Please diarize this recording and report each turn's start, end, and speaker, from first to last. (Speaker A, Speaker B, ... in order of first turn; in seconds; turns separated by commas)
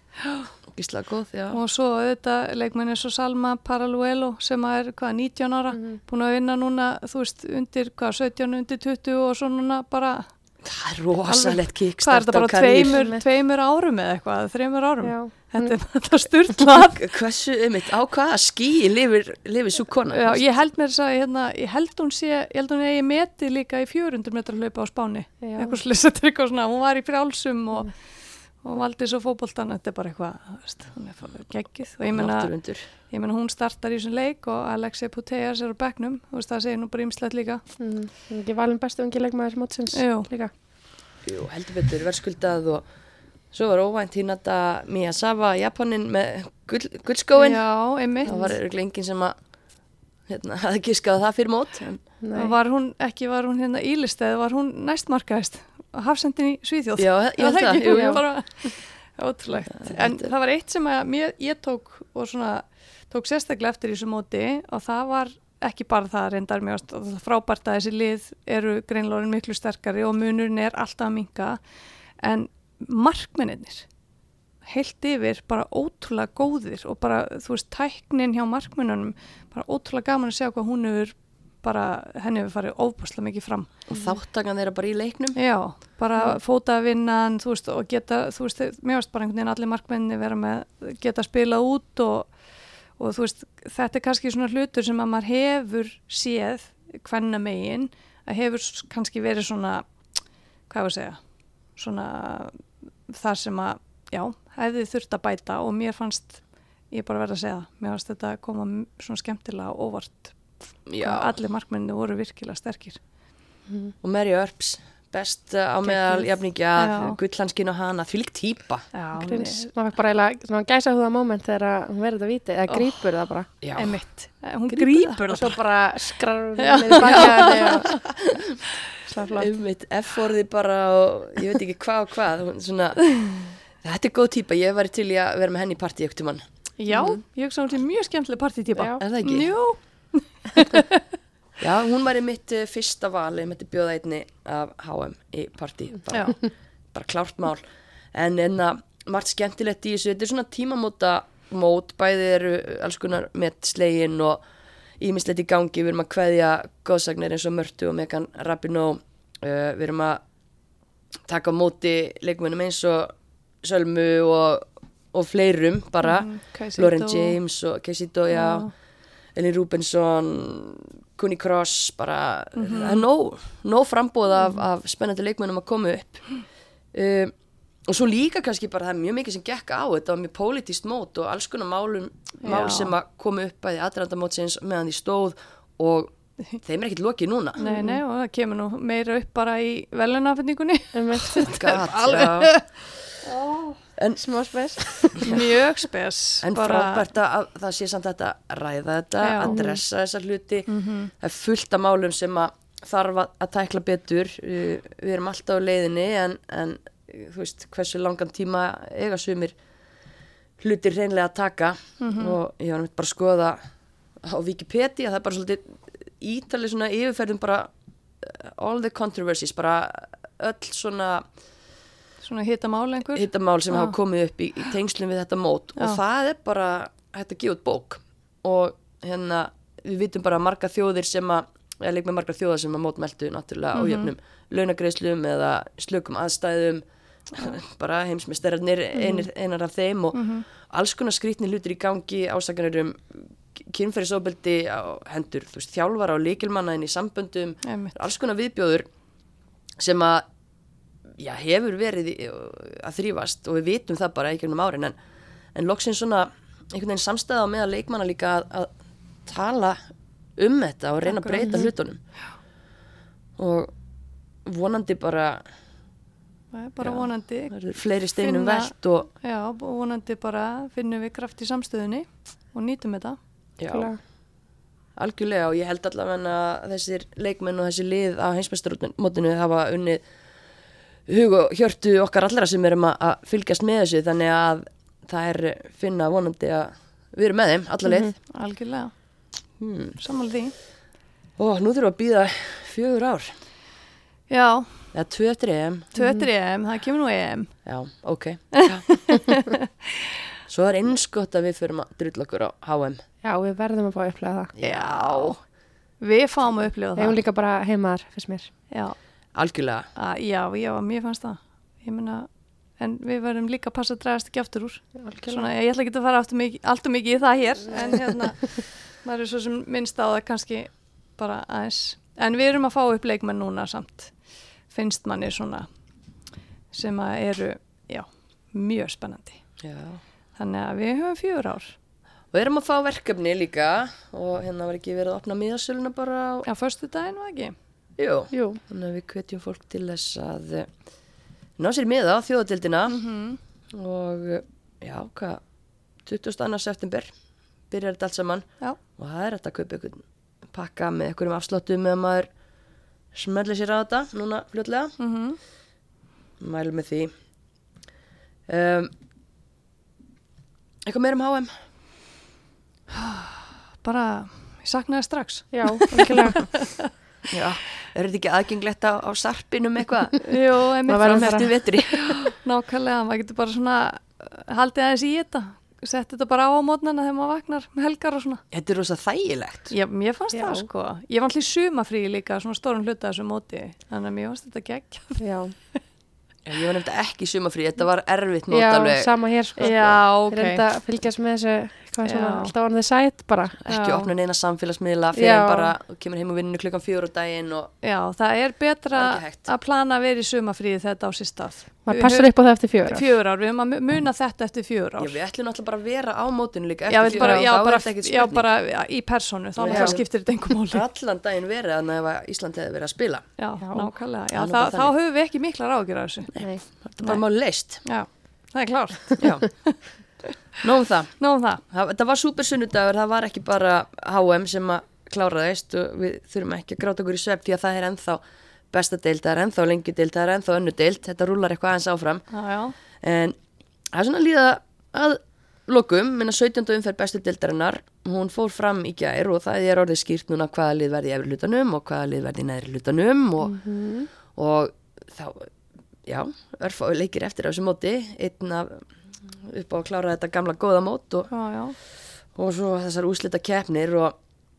Speaker A: 0.2-0.5, Speaker B: 0.7-1.6, Speaker A: 1.5-10.3, Speaker C: 5.7-6.0, Speaker B: 10.6-13.0, Speaker A: 11.3-17.1, Speaker C: 12.8-13.2, Speaker C: 15.0-15.8, Speaker B: 16.6-20.5, Speaker A: 20.1-37.6, Speaker C: 25.4-25.8, Speaker B: 32.0-32.9, Speaker C: 37.8-40.5, Speaker A: 39.9-40.3, Speaker B: 41.2-42.9, Speaker B: 43.5-49.6, Speaker A: 47.3-48.5, Speaker B: 50.2-52.0, Speaker C: 52.2-52.5, Speaker A: 52.3-73.9, Speaker B: 57.0-58.4, Speaker C: 57.9-58.2, Speaker B: 59.7-60.3, Speaker A: 74.6-83.9, Speaker B: 83.9-85.4, Speaker A: 85.3-113.0, Speaker B: 110.9-111.3, Speaker C: 113.7-113.9, Speaker B: 114.0-118.9, Speaker A: 116.1-117.2, Speaker A: 118.9-119.7, Speaker C: 119.1-123.5, Speaker A: 122.7-125.3, Speaker B: 123.6-124.0, Speaker B: 124.7-125.6, Speaker C: 125.3-128.1, Speaker A: 126.6-127.9, Speaker B: 126.9-128.4, Speaker C: 129.0-129.5, Speaker B: 129.4-136.4, Speaker A: 136.8-141.0, Speaker C: 136.9-137.2, Speaker C: 138.8-139.0, Speaker B: 139.0-139.5, Speaker B: 141.6-154.4, Speaker A: 146.1-146.4, Speaker B: 155.0-160.2, Speaker B: 161.3-168.7, Speaker A: 166.0-167.4, Speaker A: 168.3-168.7, Speaker B: 169.3-177.3, Speaker A: 172.6-173.0, Speaker B: 177.9-187.6, Speaker A: 182.4-182.9, Speaker A: 187.6-193.8, Speaker C: 187.6-188.0, Speaker C: 190.9-191.5, Speaker B: 191.4-192.8, Speaker B: 194.0-195.4, Speaker C: 194.2-195.4, Speaker A: 195.2-197.1, Speaker B: 196.4-209.6, Speaker A: 199.2-199.6, Speaker C: 199.5-199.8, Speaker A: 200.7-201.1, Speaker B: 210.6-213.6, Speaker A: 212.0-212.4, Speaker B: 214.2-221.3, Speaker A: 222.2-223.9, Speaker B: 223.1-248.9, Speaker A: 233.7-234.1, Speaker A: 240.1-240.5, Speaker A: 247.6-247.9, Speaker B: 249.8-250.2, Speaker B: 251.2-255.0, Speaker B: 255.5-258.7, Speaker B: 259.2-259.8, Speaker B: 260.4-262.0, Speaker A: 261.0-261.7, Speaker C: 261.4-261.7, Speaker B: 263.4-263.8, Speaker B: 264.4-265.5, Speaker A: 266.5-273.2, Speaker B: 266.8-269.1, Speaker B: 273.6-274.1, Speaker C: 273.7-274.0, Speaker B: 275.0-280.1, Speaker B: 281.1-288.1, Speaker C: 287.9-288.1, Speaker A: 288.3-289.3, Speaker B: 289.6-290.0, Speaker A: 290.0-290.6, Speaker B: 291.4-293.4, Speaker A: 294.3-294.9, Speaker B: 294.9-295.9, Speaker A: 295.9-297.6, Speaker C: 296.0-296.3, Speaker B: 297.6-299.4, Speaker A: 298.7-299.4, Speaker B: 300.5-303.0, Speaker C: 303.2-304.5, Speaker B: 304.6-305.4, Speaker A: 304.6-305.4, Speaker A: 306.0-307.2, Speaker C: 307.0-308.5, Speaker A: 308.7-309.0, Speaker B: 309.3-309.9, Speaker A: 309.9-325.7, Speaker C: 315.0-315.5, Speaker A: 326.7-329.5, Speaker B: 329.6-330.0, Speaker A: 330.4-331.8, Speaker B: 332.3-336.5, Speaker A: 336.5-337.5, Speaker B: 338.0-340.7, Speaker C: 338.3-338.6, Speaker B: 341.6-343.0, Speaker A: 342.9-343.4, Speaker B: 343.7-345.4, Speaker B: 346.0-347.1, Speaker B: 347.7-352.3, Speaker B: 353.1-355.0, Speaker A: 355.0-355.4, Speaker B: 356.4-357.1, Speaker B: 358.5-358.9, Speaker B: 360.9-361.5, Speaker A: 362.9-366.8, Speaker C: 365.5-366.5, Speaker B: 367.3-372.3, Speaker A: 370.3-378.4, Speaker C: 370.9-371.6, Speaker B: 378.5-379.7, Speaker A: 379.7-385.8, Speaker C: 380.3-380.7, Speaker C: 385.2-385.5, Speaker B: 386.4-389.1, Speaker C: 388.5-393.6, Speaker A: 389.6-390.6, Speaker B: 389.6-389.9, Speaker A: 392.0-392.5, Speaker B: 393.6-397.7, Speaker A: 393.7-394.1, Speaker C: 395.1-395.7, Speaker A: 397.8-405.2, Speaker B: 398.9-399.5, Speaker C: 401.9-403.1, Speaker B: 405.0-408.5, Speaker A: 406.9-410.8, Speaker C: 407.0-407.5, Speaker B: 409.6-413.3, Speaker C: 409.7-410.0, Speaker A: 413.4-420.2, Speaker C: 413.6-414.0, Speaker B: 414.3-414.9, Speaker B: 416.3-417.9, Speaker B: 419.2-420.0, Speaker B: 420.6-432.2, Speaker A: 421.2-421.6, Speaker A: 432.3-432.8, Speaker B: 432.9-433.4, Speaker B: 433.9-445.5, Speaker C: 443.4-444.1, Speaker B: 446.1-451.3, Speaker A: 451.3-451.8, Speaker B: 452.3-454.1